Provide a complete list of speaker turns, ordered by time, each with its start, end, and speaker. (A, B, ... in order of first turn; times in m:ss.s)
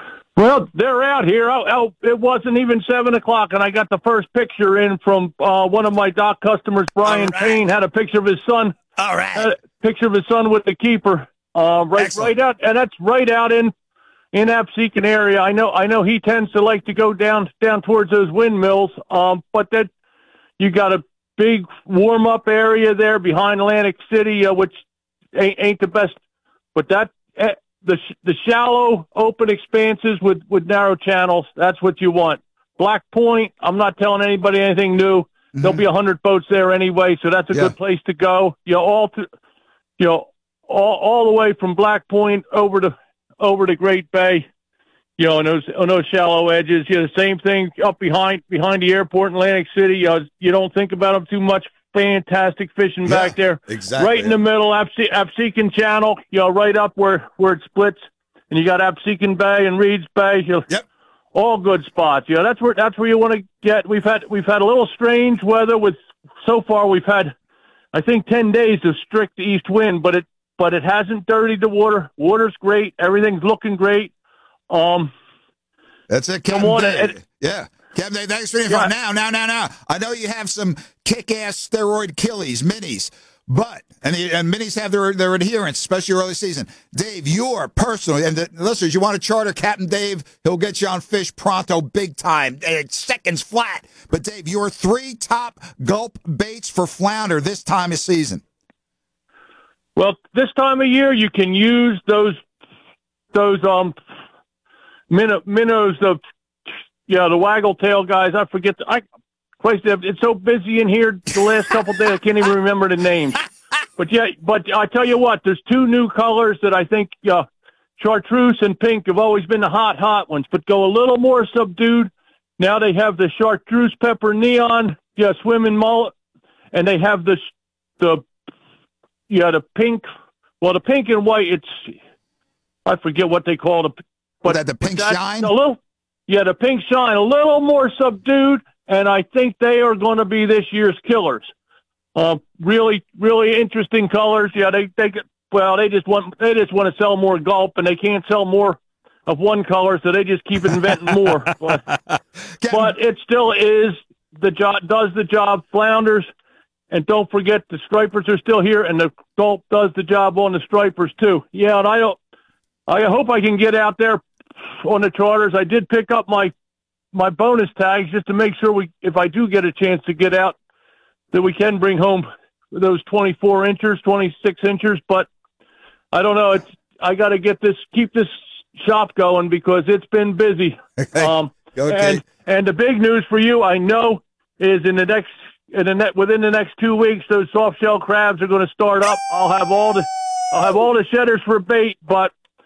0:00.4-0:08.8 A
0:09.0-0:09.4 B
0:09.3-0:13.7 A
0:14.3-0:19.9 A
0:20.6-0:24.8 A
0:25.3-0:26.2 A
0:26.7-0:39.2 A
0:40.0-0:44.4 A
0:45.2-1:00.6 A
0:53.7-0:54.2 B
1:01.3-1:07.3 A
1:07.9-1:14.1 A
1:14.7-1:15.1 A
1:16.1-1:38.4 B
1:16.5-1:17.2 A
1:40.0-1:42.4 A
1:43.3-1:44.0 A
1:45.1-1:46.2 A
1:47.1-1:49.0 A
1:49.6-1:53.4 A
1:54.0-1:57.4 A
1:58.0-2:06.1 A
2:06.7-2:07.4 A
2:08.0-2:08.2 A
2:09.3-2:10.1 A
2:10.6-2:12.0 A
2:12.8-2:21.5 A
2:14.5-2:15.5 B
2:22.2-2:31.8 A
2:32.6-2:36.3 A
2:36.9-2:42.2 A
2:42.9-2:44.2 A
2:44.8-2:46.5 A
2:47.1-2:50.6 A
2:51.3-2:55.3 A
2:56.1-3:12.3 A
3:01.8-3:02.1 B